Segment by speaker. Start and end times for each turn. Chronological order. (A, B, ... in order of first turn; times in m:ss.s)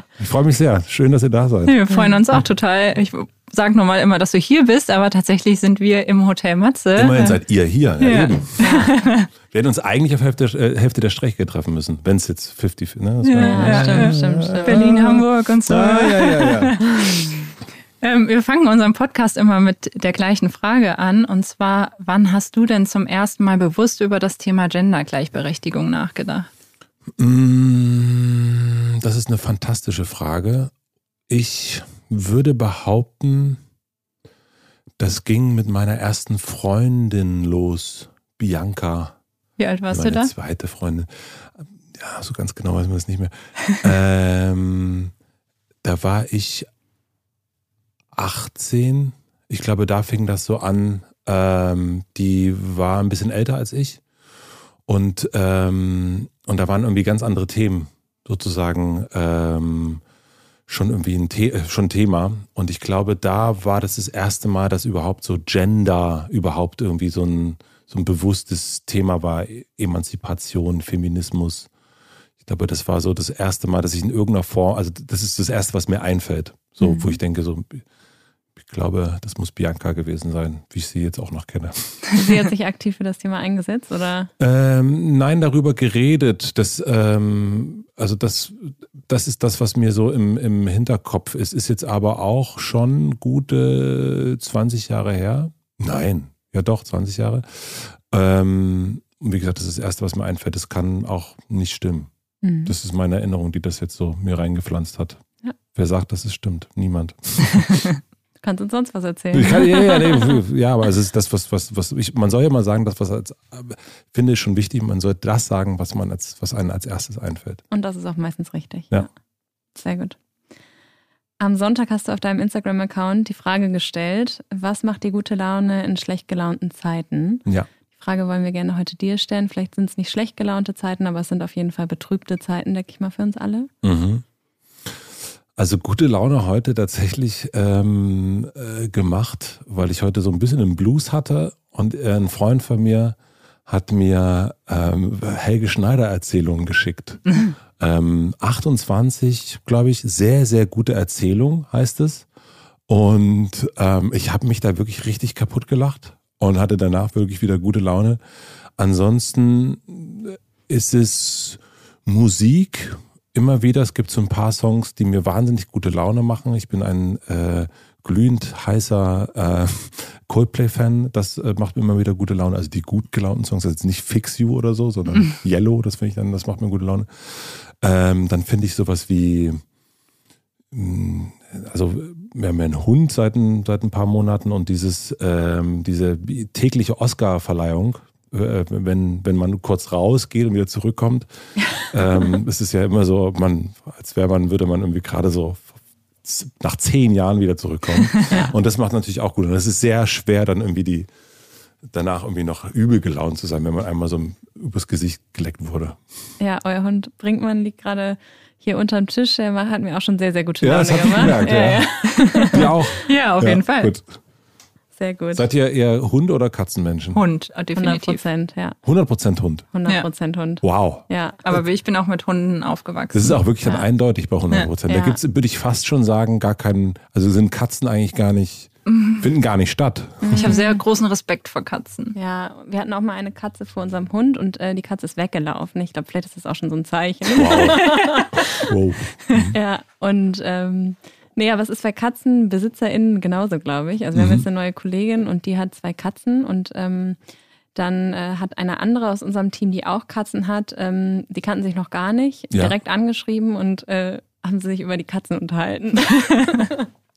0:00.2-0:01.8 A
0:01.6-0:07.4 B
0:06.9-0:08.9 A
0:08.0-0:09.3 B
0:08.6-0:08.9 C
0:09.5-0:16.8 A
0:13.2-0:17.4 B
0:13.4-0:15.2 C
0:18.0-0:26.5 B
0:27.2-0:30.7 A
0:31.3-0:33.6 A
0:35.0-0:39.2 A
0:39.6-0:40.3 B
0:39.9-0:45.1 A
0:45.8-0:46.7 A
0:48.1-0:54.0 A
0:54.8-1:00.0 A
1:00.7-1:11.7 A
1:12.4-1:17.8 A
1:16.8-1:17.2 C
1:18.6-1:22.1 A
1:22.1-1:24.3 C
1:24.4-1:42.1 A
1:42.4-1:42.7 C
1:42.6-1:45.2 A
1:45.7-1:47.9 A
1:48.4-1:50.4 C
1:49.3-1:57.6 A
1:57.7-1:59.1 C
1:59.8-2:00.2 C
2:01.4-2:07.4 C
2:08.0-2:13.7 C
2:13.8-2:14.2 A
2:15.6-2:32.3 A
2:32.9-2:38.2 A
2:38.8-2:59.6 A
3:00.7-3:15.7 A
3:16.2-3:21.1 A
3:21.9-3:26.0 A
3:26.4-3:33.0 C
3:30.6-3:31.9 A
3:31.3-3:31.5 B
3:32.1-3:33.9 B
3:32.5-3:34.2 A
3:35.0-3:35.4 C
3:35.3-3:37.2 A
3:37.1-3:38.2 B
3:37.8-3:38.8 C
3:38.8-3:39.7 A
3:39.7-3:41.4 C
3:40.6-3:41.6 A
3:41.4-3:43.4 B
3:43.1-3:50.4 A
3:44.9-3:45.2 C
3:48.9-3:49.2 B
3:50.2-3:50.8 C
3:50.3-3:52.2 B
3:52.2-3:58.6 C
3:57.3-3:59.6 A
3:59.4-4:07.2 C
4:04.2-4:04.4 A
4:07.7-4:16.9 C